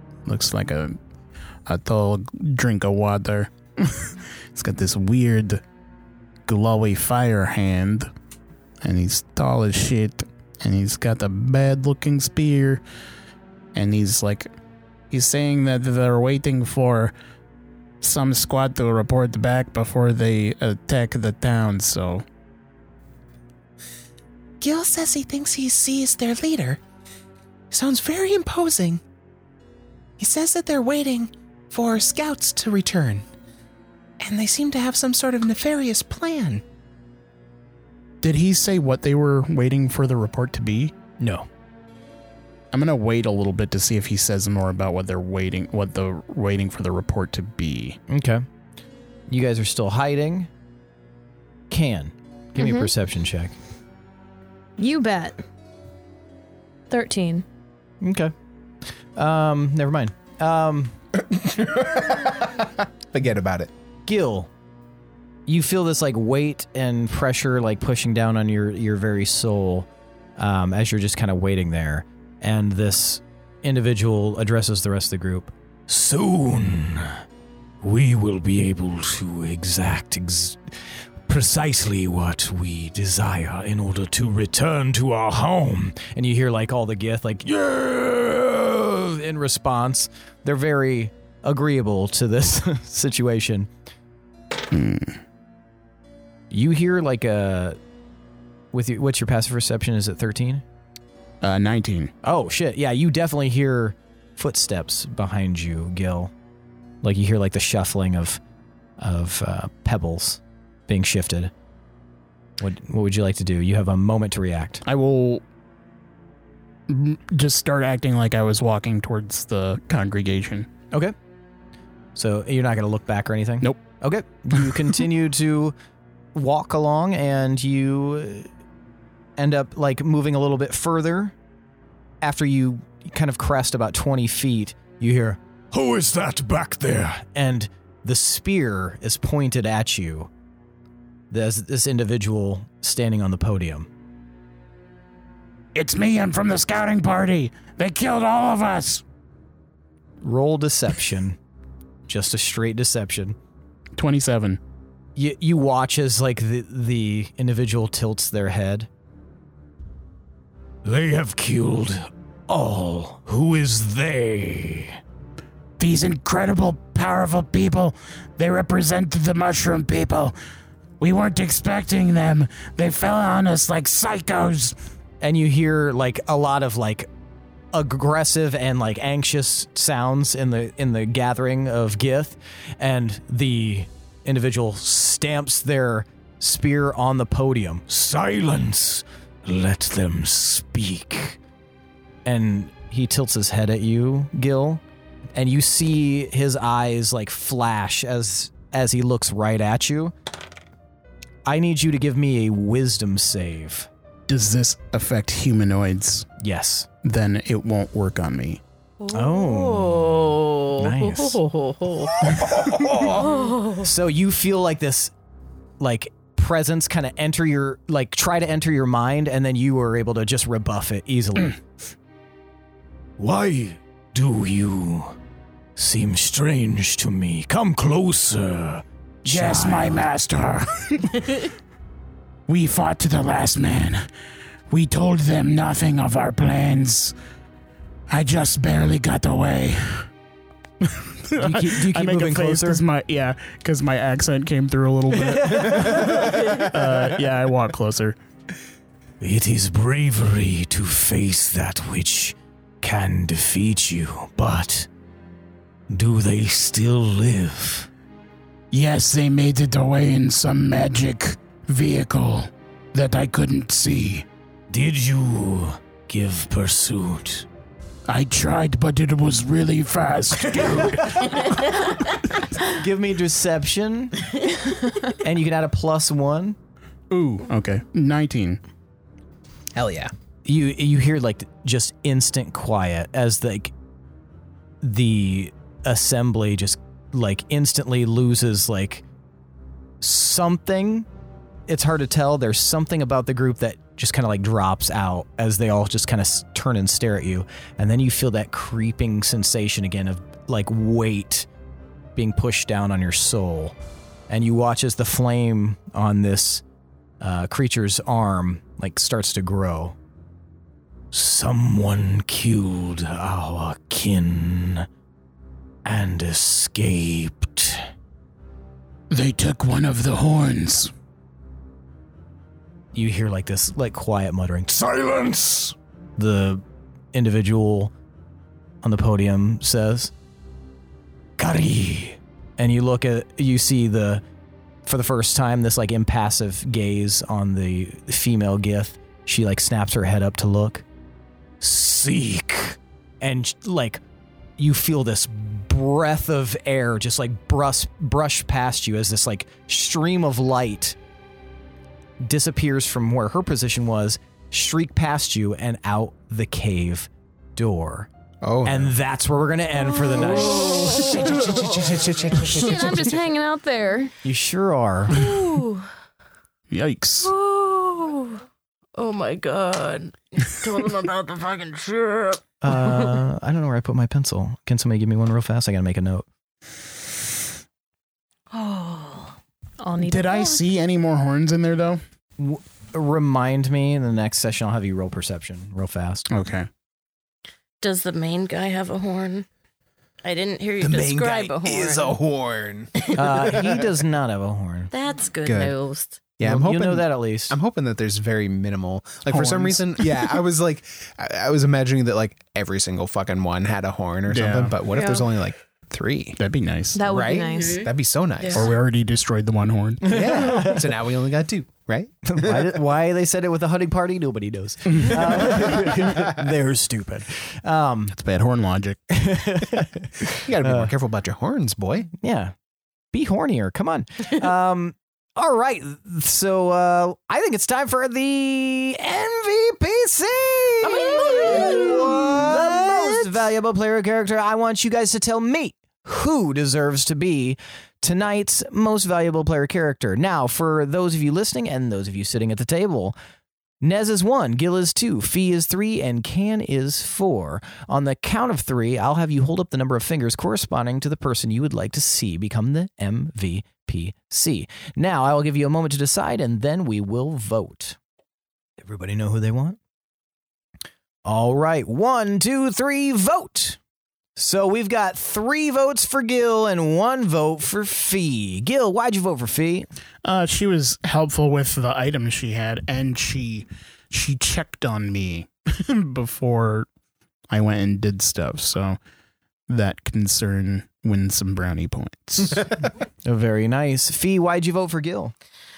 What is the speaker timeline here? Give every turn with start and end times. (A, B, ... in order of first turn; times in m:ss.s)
0:00.2-0:01.0 A
0:01.6-0:05.6 A
0:06.5-0:08.1 A
0:08.8-0:12.8 A
0:13.7-0:14.5 A
0:15.1-0:17.1 A
0:18.0-0:22.2 A
0:24.6-0:26.8 B
0:27.7-0:29.0 B
0:30.2-0:33.2 B
0:34.2-0:36.6 B
0:38.2-0:40.9 A
0:41.2-0:41.5 C
0:42.7-0:48.0 A
0:48.1-0:48.4 C
0:49.3-0:50.5 C
0:51.7-0:53.5 C
0:52.6-0:52.9 D
0:54.8-0:55.4 D
0:56.9-0:57.4 D
0:58.0-0:58.3 C
0:59.2-1:00.9 C
1:01.4-1:03.7 E
1:04.0-1:04.5 C
1:05.5-1:17.2 C
1:17.8-1:20.7 C
1:21.3-1:33.7 C
1:34.7-1:35.2 A
1:36.5-1:37.8 C
1:38.7-1:40.6 C
1:41.4-1:42.1 A
1:42.2-1:46.3 C
1:47.0-1:48.4 C
1:49.0-1:51.5 C
1:52.6-1:54.8 C
1:54.8-1:55.4 A
1:56.9-2:00.7 A
2:02.1-2:05.7 C
2:06.3-2:08.5 C
2:09.4-2:11.3 C
2:12.2-2:20.3 C
2:21.3-2:23.9 C
2:25.7-2:29.0 A
2:30.2-2:31.4 C
2:32.1-2:33.4 C
2:34.0-2:34.6 A
2:35.2-2:38.9 C
2:40.8-2:45.0 C
2:45.8-2:50.4 A
2:51.0-2:54.8 A
2:55.2-2:57.1 C
2:57.7-3:11.4 C
3:12.2-3:14.8 C
3:15.3-3:20.1 C
3:21.4-3:23.9 C
3:24.3-3:26.3 A
3:26.4-3:26.9 C
3:27.0-3:28.6 A
3:29.0-3:32.2 F
3:29.1-3:31.4 C
3:32.6-3:33.2 E
3:32.7-3:35.1 C
3:33.0-3:33.9 F
3:35.8-3:41.6 C
3:43.2-3:45.2 C
3:45.8-3:50.0 C
3:49.2-3:51.4 A
3:52.5-3:54.0 A
3:54.7-3:57.1 A
3:58.1-4:00.1 A
4:00.8-4:08.2 A
4:01.4-4:02.8 C
4:05.1-4:07.2 C
4:09.2-4:14.9 C
4:15.9-4:17.9 C
4:18.7-4:24.3 A
4:24.7-4:27.4 C
4:28.1-4:31.4 A
4:30.4-4:31.8 C
4:32.6-4:34.3 C
4:35.1-4:36.6 C
4:37.1-4:38.6 A
4:39.8-4:40.1 E
4:40.4-4:43.7 C
4:44.8-4:49.0 C
4:50.0-4:51.1 C
4:51.7-5:01.5 C
5:02.1-5:03.7 C
5:04.3-5:06.6 C
5:07.2-5:09.9 C
5:11.1-5:14.9 C
5:15.8-5:17.8 C
5:19.1-5:20.9 A
5:22.9-5:27.9 C
5:28.8-5:30.1 C
5:31.4-5:34.2 C
5:34.8-5:40.8 C
5:41.6-5:44.0 C
5:44.6-5:51.0 C
5:52.2-5:58.1 C
5:58.4-5:58.9 E
5:58.6-6:01.5 C
6:00.1-6:01.8 F
6:01.4-6:03.0 E
6:01.6-6:02.3 B
6:02.4-6:04.1 D
6:04.2-6:05.2 C
6:05.1-6:05.9 F
6:06.7-6:07.3 A
6:07.2-6:08.4 F
6:09.0-6:13.1 F
6:12.6-6:16.2 C
6:18.5-6:19.4 F
6:19.8-6:20.6 D
6:20.0-6:22.0 A
6:22.4-6:26.2 C
6:26.3-6:26.7 A
6:27.8-6:29.4 F
6:30.2-6:32.2 F
6:30.8-6:31.5 B
6:30.9-6:33.8 E
6:33.0-6:33.6 F
6:33.1-6:34.9 C
6:34.9-6:36.2 F
6:35.4-6:35.7 E
6:36.4-6:46.4 E
6:36.4-6:37.6 C
6:39.3-6:40.3 A
6:44.3-6:44.7 A
6:44.9-6:45.2 F
6:46.4-6:47.0 A
6:46.9-6:47.9 D
6:47.0-6:48.7 E
6:47.5-6:47.9 F
6:48.5-6:50.2 A
6:50.0-6:51.0 C
6:50.0-6:52.8 E
6:52.2-6:58.1 C
6:58.1-6:59.1 A
6:59.1-7:00.9 C
7:00.4-7:02.1 E
7:02.1-7:02.5 C
7:03.1-7:23.2 C
7:10.8-7:13.4 F
7:23.8-7:38.0 C
7:38.8-7:39.8 C
7:41.2-7:43.8 C
7:44.4-7:49.9 C
7:50.2-7:56.9 A
7:57.5-7:59.0 A
7:59.7-8:02.7 A
8:03.2-8:05.3 C